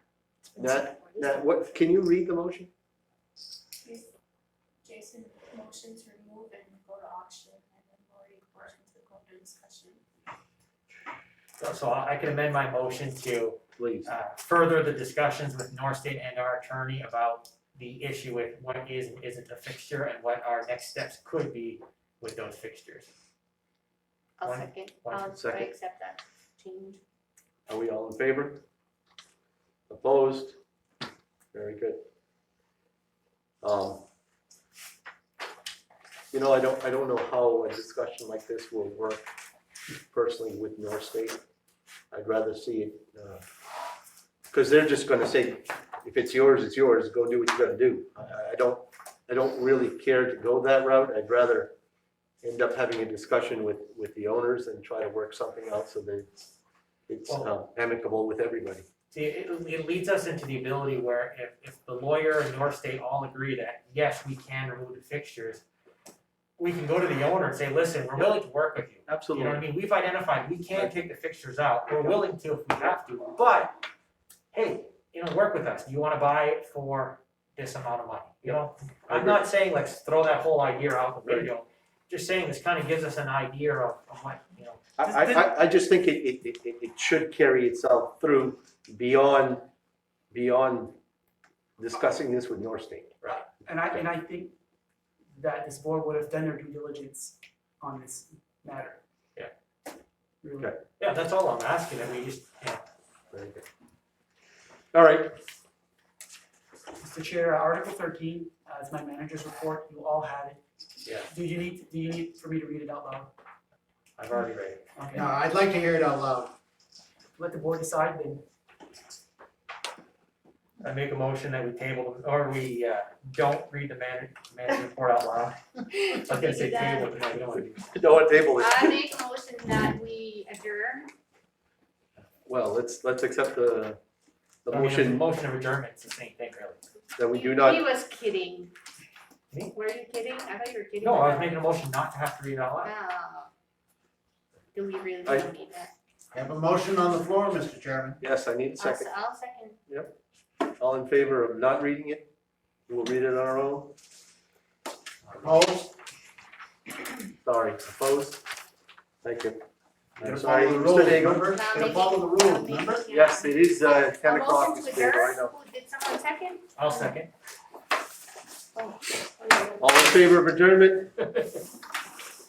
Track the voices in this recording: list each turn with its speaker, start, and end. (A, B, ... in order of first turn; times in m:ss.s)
0:00.6-0:01.5 A
0:00.6-0:02.7 B
0:04.8-0:10.0 C
0:11.6-0:23.1 D
0:13.8-0:14.1 B
0:24.4-0:27.0 A
0:24.4-0:25.4 D
0:25.3-0:25.7 B
0:27.7-0:28.6 B
0:29.9-0:30.6 B
0:31.5-0:32.0 B
0:33.6-0:34.0 B
0:36.3-0:39.3 B
0:40.1-0:41.4 B
0:42.1-0:43.4 B
0:44.5-0:51.7 B
0:52.4-0:56.3 B
0:57.1-0:58.8 B
0:57.3-0:57.5 D
0:59.1-1:05.6 D
1:06.6-1:13.8 D
1:09.1-1:09.6 B
1:11.9-1:12.2 B
1:14.5-1:24.9 D
1:19.1-1:19.4 B
1:21.2-1:21.5 B
1:25.0-1:29.7 B
1:25.0-1:25.5 E
1:30.3-1:31.0 B
1:31.8-1:33.2 B
1:33.6-1:34.5 E
1:35.3-1:39.0 E
1:40.4-1:40.7 E
1:41.0-1:42.8 D
1:43.3-1:43.6 B
1:44.9-1:45.4 B
1:47.0-1:50.6 E
1:51.3-1:53.3 E
1:54.2-1:54.8 D
1:55.0-1:55.3 E
1:55.1-1:56.5 F
1:57.4-1:58.4 E
2:00.8-2:05.6 D
2:05.9-2:07.1 A
2:06.1-2:08.0 D
2:07.8-2:09.0 B
2:08.6-2:11.1 A
2:12.4-2:14.0 B
2:14.6-2:15.2 B
2:14.7-2:16.8 D
2:17.2-2:17.8 B
2:17.3-2:18.7 A
2:19.7-2:21.6 A
2:21.0-2:22.9 D
2:22.8-2:23.5 A
2:24.7-2:25.9 A
2:26.3-2:28.2 F
2:28.2-2:29.1 B
2:28.8-2:29.8 A
2:29.9-2:30.1 B
2:30.8-2:32.3 B
2:32.9-2:33.9 B
2:35.2-2:35.5 D
2:35.4-2:35.9 F
2:37.4-2:38.4 B
2:39.2-2:39.6 B
2:40.2-2:41.6 B
2:40.2-2:43.1 F
2:41.5-2:47.1 A
2:43.1-2:45.5 B
2:46.8-2:47.3 D
2:48.8-2:49.8 A
2:49.8-2:51.2 B